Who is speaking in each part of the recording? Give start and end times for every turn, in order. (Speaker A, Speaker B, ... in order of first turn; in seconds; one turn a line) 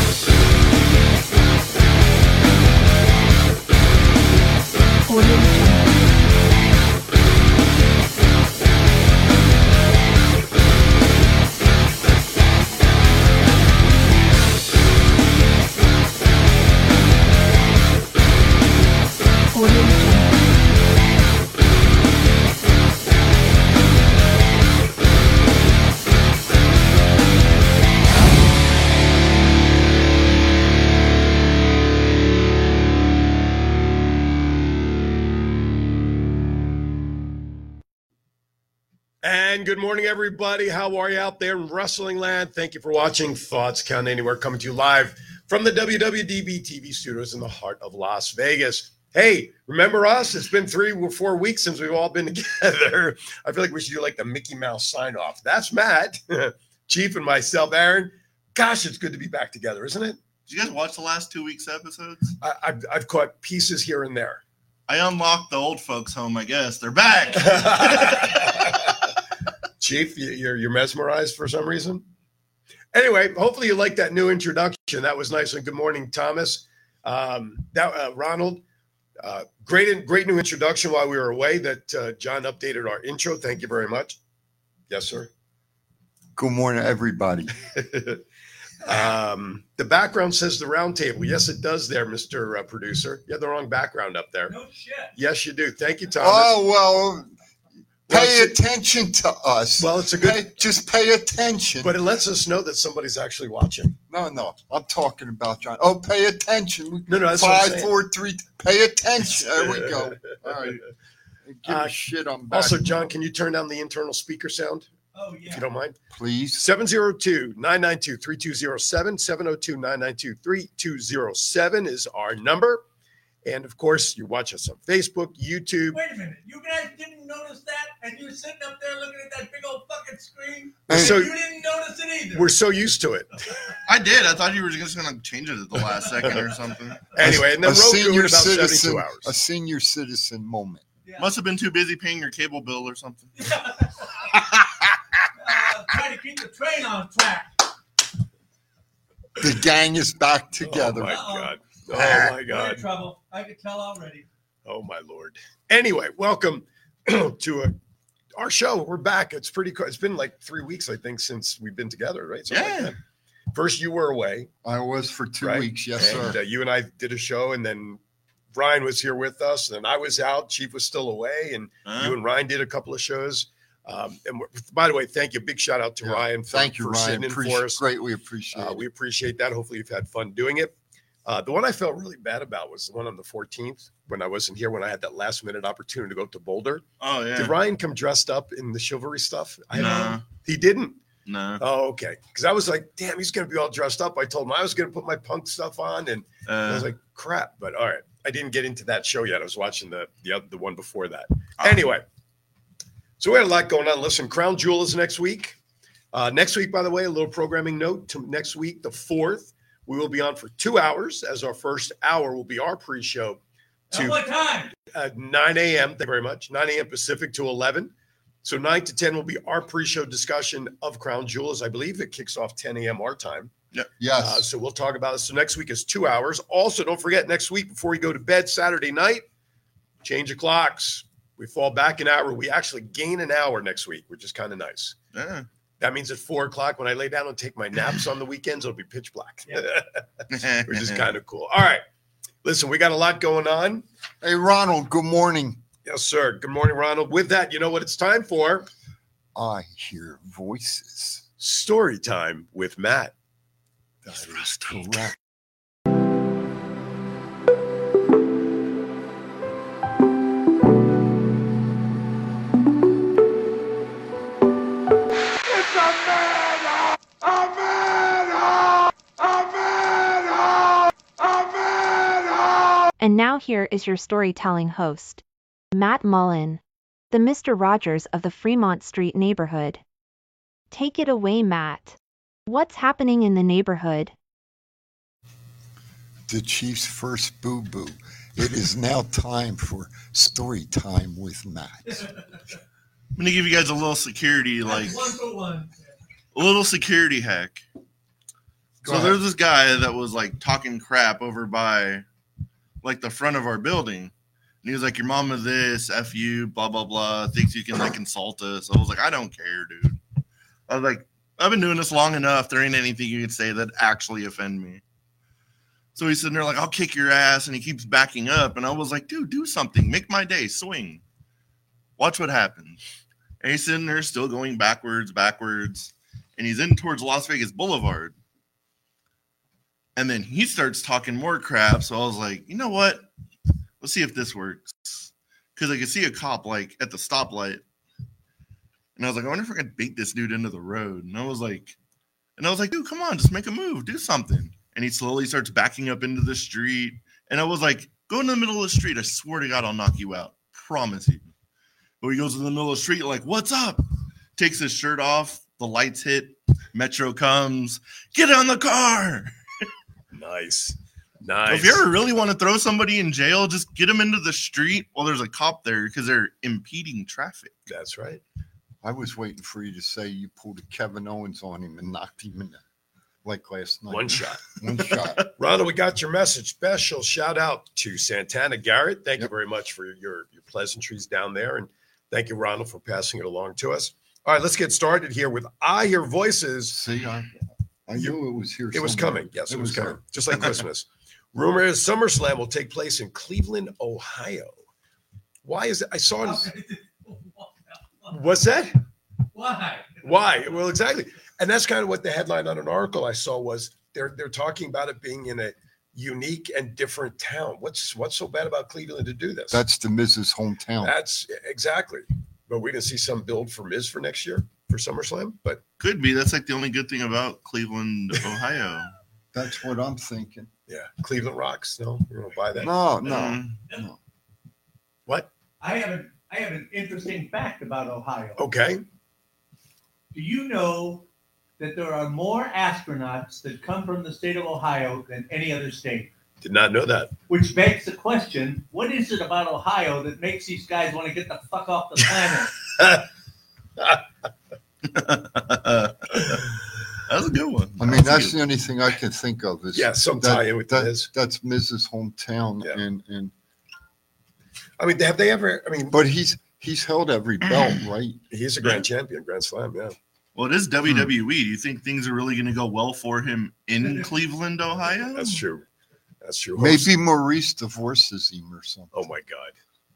Speaker A: 5.0-5.9
Speaker A: 19.5-20.3
Speaker B: 39.2-60.2
Speaker C: 60.5-62.4
Speaker B: 62.4-64.4
Speaker C: 64.9-68.5
Speaker B: 67.3-68.9
Speaker B: 69.8-72.0
Speaker B: 72.9-78.6
Speaker B: 79.2-84.2
Speaker B: 84.9-85.3
Speaker D: 86.3-87.5
Speaker B: 87.7-88.2
Speaker B: 88.8-94.5
Speaker E: 94.5-95.1
Speaker B: 95.1-96.5
Speaker D: 96.2-97.3
Speaker B: 98.1-98.5
Speaker D: 98.1-101.9
Speaker B: 99.8-100.6
Speaker B: 101.8-104.0
Speaker D: 104.1-110.8
Speaker B: 107.1-107.9
Speaker B: 109.6-110.0
Speaker D: 111.5-113.0
Speaker B: 111.7-111.9
Speaker B: 112.5-114.9
Speaker E: 115.1-115.6
Speaker B: 115.5-116.0
Speaker D: 116.1-116.7
Speaker B: 116.6-122.8
Speaker B: 123.4-126.0
Speaker E: 125.9-132.5
Speaker D: 130.9-131.2
Speaker B: 130.9-131.3
Speaker B: 132.3-133.3
Speaker C: 133.8-137.0
Speaker B: 137.1-139.3
Speaker D: 137.2-140.8
Speaker C: 141.2-143.3
Speaker E: 143.4-144.3
Speaker E: 145.4-147.6
Speaker D: 149.4-151.2
Speaker B: 150.6-152.8
Speaker E: 151.0-154.2
Speaker B: 154.6-157.8
Speaker B: 158.3-163.0
Speaker C: 162.5-162.9
Speaker B: 163.5-164.5
Speaker D: 164.6-166.4
Speaker B: 165.4-168.0
Speaker B: 168.5-177.8
Speaker C: 171.8-172.2
Speaker D: 176.0-178.8
Speaker B: 178.5-180.7
Speaker B: 181.2-191.0
Speaker C: 187.0-187.5
Speaker C: 189.7-190.2
Speaker C: 191.2-191.6
Speaker B: 191.6-202.0
Speaker C: 196.5-196.9
Speaker B: 203.2-205.6
Speaker B: 206.1-213.4
Speaker B: 213.9-214.2
Speaker E: 213.9-214.7
Speaker B: 214.8-217.9
Speaker B: 218.4-223.5
Speaker D: 224.0-224.5
Speaker B: 224.2-229.2
Speaker B: 230.0-234.9
Speaker C: 235.1-235.5
Speaker B: 235.8-240.0
Speaker C: 240.3-241.1
Speaker B: 240.7-241.8
Speaker B: 242.4-243.8
Speaker D: 244.2-245.6
Speaker B: 245.8-248.7
Speaker D: 249.3-251.2
Speaker B: 251.4-253.1
Speaker D: 254.0-255.2
Speaker B: 254.1-255.0
Speaker A: 273.0-276.6
Speaker A: 277.1-279.8
Speaker A: 280.7-284.1
Speaker D: 286.3-292.1
Speaker C: 293.1-295.1
Speaker E: 294.6-295.9
Speaker C: 296.3-297.6
Speaker B: 298.8-299.2
Speaker C: 298.8-302.0
Speaker C: 302.8-304.1
Speaker C: 304.6-310.0
Speaker C: 310.7-314.8
Speaker C: 315.9-321.0
Speaker C: 322.0-322.8
Speaker C: 323.4-328.1
Speaker C: 329.9-333.1
Speaker C: 333.8-337.6
Speaker C: 338.9-341.8
Speaker C: 342.4-351.2
Speaker C: 352.0-353.8
Speaker C: 354.4-359.3
Speaker B: 360.1-361.9
Speaker C: 361.5-367.7
Speaker B: 367.7-368.2
Speaker D: 368.8-372.6
Speaker D: 373.2-375.3
Speaker B: 373.9-374.4
Speaker B: 375.4-386.8
Speaker D: 386.7-387.3
Speaker D: 387.9-390.0
Speaker B: 388.7-394.6
Speaker B: 395.4-396.5
Speaker E: 396.2-398.1
Speaker B: 398.1-398.7
Speaker E: 399.3-400.5
Speaker B: 400.0-409.6
Speaker D: 409.5-410.9
Speaker B: 410.8-415.6
Speaker C: 415.8-418.9
Speaker D: 419.3-420.5
Speaker B: 420.7-422.7
Speaker D: 422.6-424.0
Speaker C: 423.1-423.6
Speaker E: 425.6-428.4
Speaker B: 428.4-428.8
Speaker E: 430.1-431.1
Speaker E: 431.6-436.1
Speaker B: 436.4-437.1
Speaker E: 437.3-442.5
Speaker B: 442.8-443.0
Speaker C: 444.9-448.4
Speaker D: 447.8-453.3
Speaker B: 449.7-451.1
Speaker B: 454.8-456.0
Speaker D: 455.9-458.2
Speaker B: 458.3-459.9
Speaker C: 460.3-465.4
Speaker B: 465.1-465.6
Speaker B: 466.2-466.9
Speaker D: 466.6-468.9
Speaker B: 468.9-469.6